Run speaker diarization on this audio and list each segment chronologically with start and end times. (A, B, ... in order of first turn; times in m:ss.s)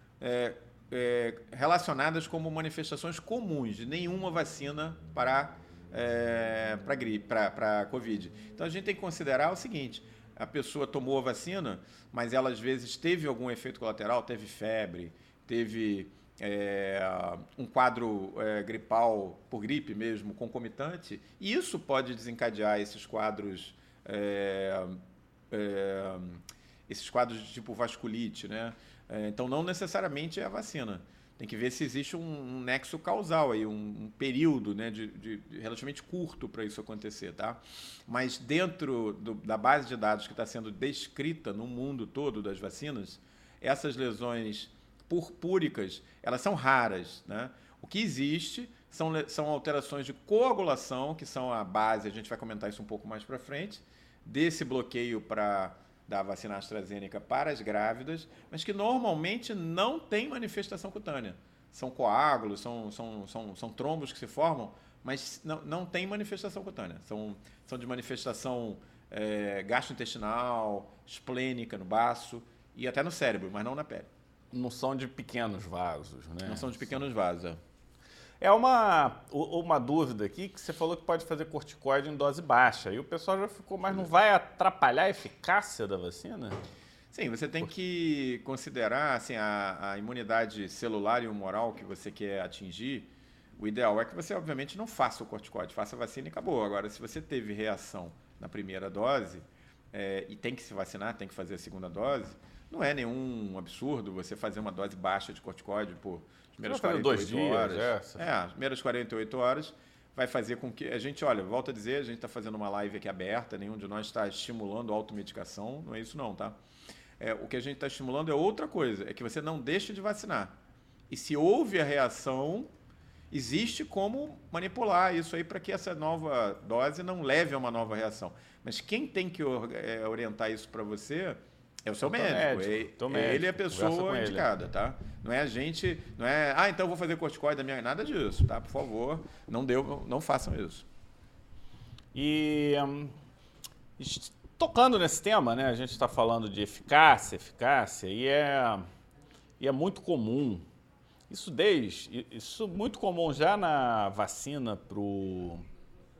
0:00.2-0:25.0 A
0:25.5-1:14.1 A
1:14.5-1:17.0 B
1:16.4-1:17.6 A
1:18.4-1:26.6 B
1:27.1-1:56.6 A
1:46.6-1:48.2 B
1:57.2-2:00.6 A
2:01.1-2:02.7 A
2:03.3-2:20.9 A
2:12.0-2:14.5 B
2:22.1-2:23.2 B
2:24.0-2:28.8 B
2:29.6-2:30.7 B
2:31.3-2:35.6 B